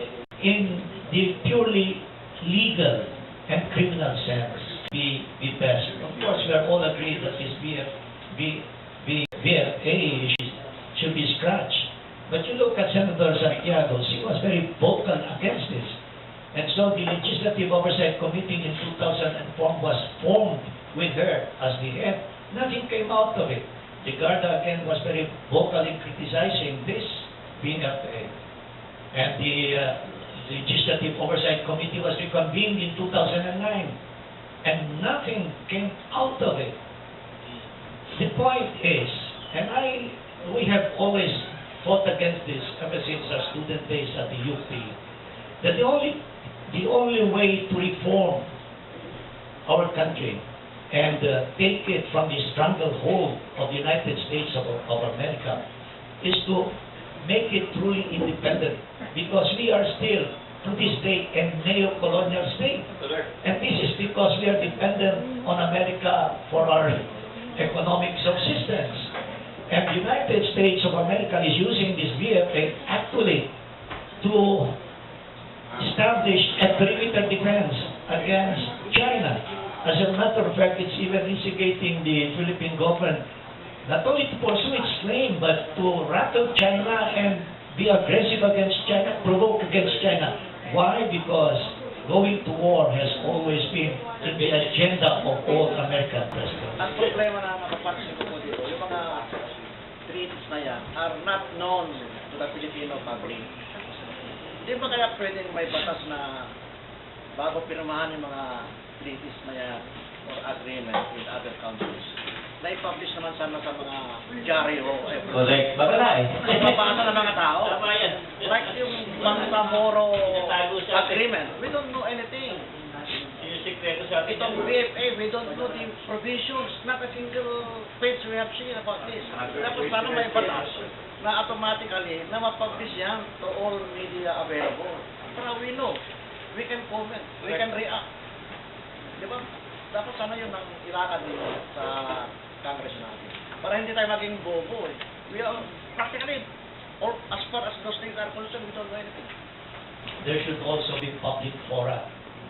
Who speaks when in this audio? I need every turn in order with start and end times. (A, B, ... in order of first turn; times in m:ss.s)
0:00.4-0:16.0 A
0:16.5-0:28.3 A
0:29.1-0:34.0 A
0:34.6-0:36.8 A
0:38.1-0:45.0 A
0:45.6-0:48.5 A
0:49.7-0:55.6 A
0:56.2-1:02.8 A
1:03.4-1:07.0 A
1:07.6-1:09.1 A
1:09.7-1:13.5 A
1:14.2-1:14.8 A
1:15.8-1:23.2 A
1:23.8-1:36.8 A
1:36.8-1:39.3 B
1:40.1-1:44.0 B
1:44.6-1:46.2 B
1:47.4-1:49.8 B
1:50.3-1:57.8 B
1:55.3-1:57.0 C
1:57.7-1:58.1 C
1:58.4-2:02.7 B
2:00.4-2:01.1 C
2:03.4-2:04.4 C
2:04.2-2:15.9 B
2:16.5-2:18.0 B
2:19.2-2:26.4 B
2:27.0-2:29.3 B
2:30.2-2:32.1 A